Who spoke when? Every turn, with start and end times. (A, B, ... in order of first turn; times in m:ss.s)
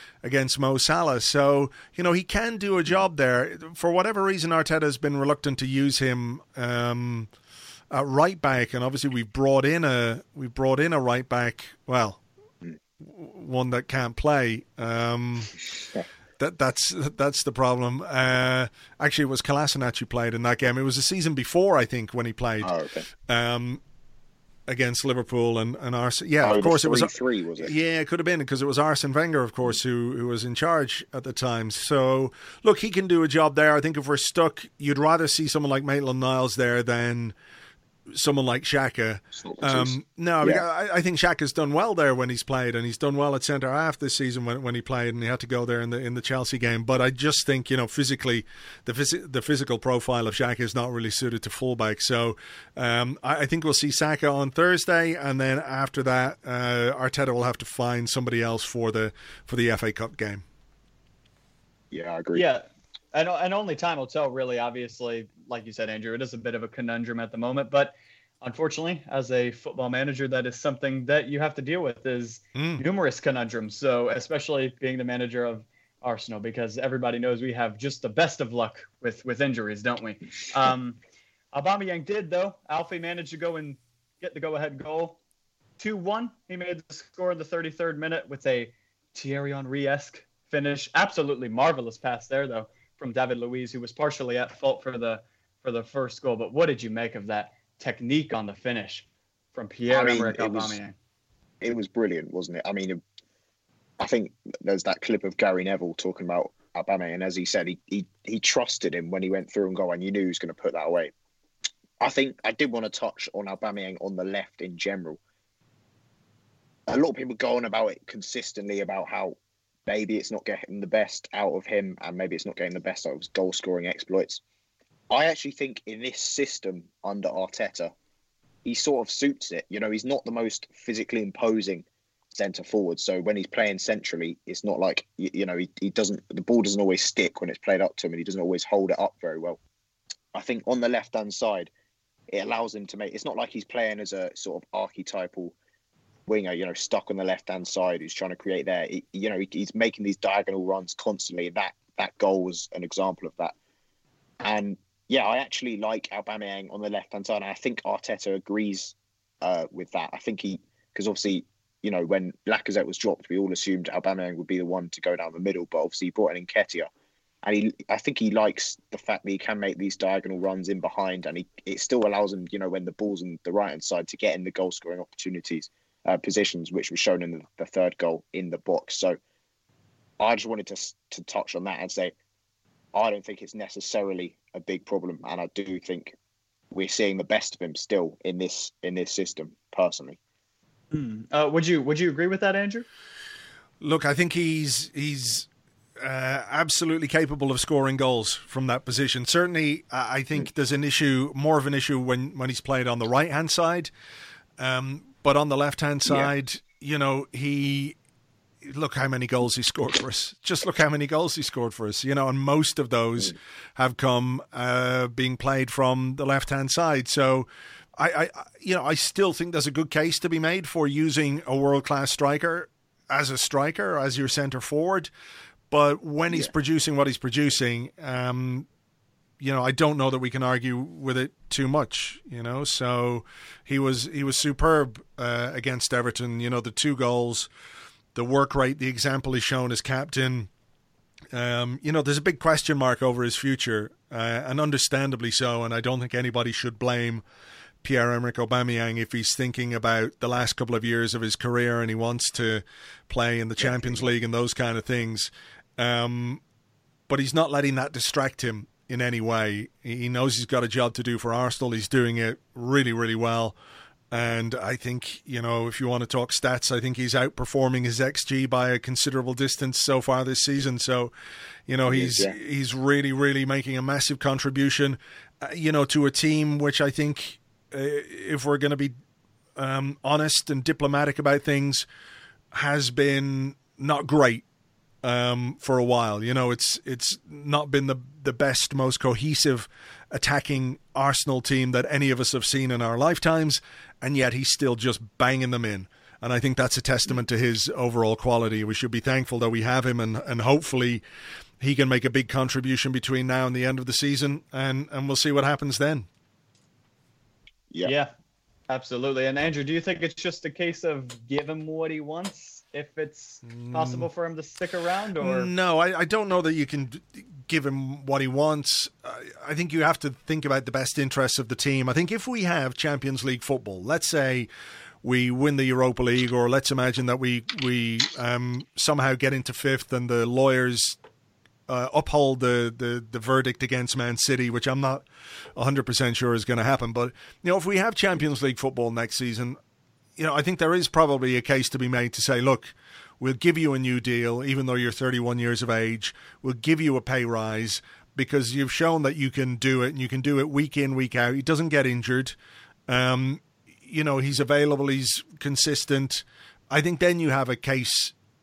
0:00.2-0:07.3 A
0:07.9-0:12.2 A
0:13.0-0:15.6 A
0:16.4-0:22.7 A
0:22.6-0:23.0 B
0:23.3-0:23.8 A
0:24.7-0:37.4 A
0:26.4-0:27.7 B
0:38.1-1:00.4 A
0:39.4-0:40.6 B
1:01.9-1:02.4 B
1:02.3-1:21.0 C
1:12.6-1:12.8 A
1:21.5-1:25.2 C
1:25.8-1:41.0 C
1:39.9-1:40.8 B
1:41.6-1:43.0 B
1:44.0-1:51.1 B
1:52.0-1:55.2 B
1:56.9-2:04.4 B
2:05.1-2:07.9 B
2:08.6-2:19.6 B
2:20.3-2:21.7 B
2:22.3-2:25.6 B
2:26.3-2:33.6 B
2:34.4-2:46.9 B
2:47.4-2:59.2 B
3:00.2-3:02.1 B
3:02.9-3:06.2 B
3:06.7-3:10.2 B
3:10.9-3:12.9 C
3:13.8-3:15.5 A
3:16.0-3:23.9 A
3:24.6-3:28.0 A
3:28.6-3:45.1 A
3:45.7-3:48.7 A
3:49.4-3:57.5 A
3:58.2-4:00.5 A
4:01.3-4:07.2 A
4:07.8-4:16.4 A
4:13.6-4:14.1 B
4:17.1-4:23.6 A
4:24.1-4:31.1 A
4:31.7-4:38.9 A
4:31.9-4:32.4 B
4:39.6-4:41.9 A
4:42.5-4:44.4 A
4:45.0-5:01.0 A
5:01.6-5:06.1 A
5:07.8-5:08.1 C
5:08.7-5:15.5 C
5:13.4-5:14.1 A
5:15.2-5:24.5 A
5:25.0-5:31.0 A
5:31.7-5:35.0 A
5:35.6-5:39.6 A
5:40.2-5:52.4 A
5:52.9-5:58.1 A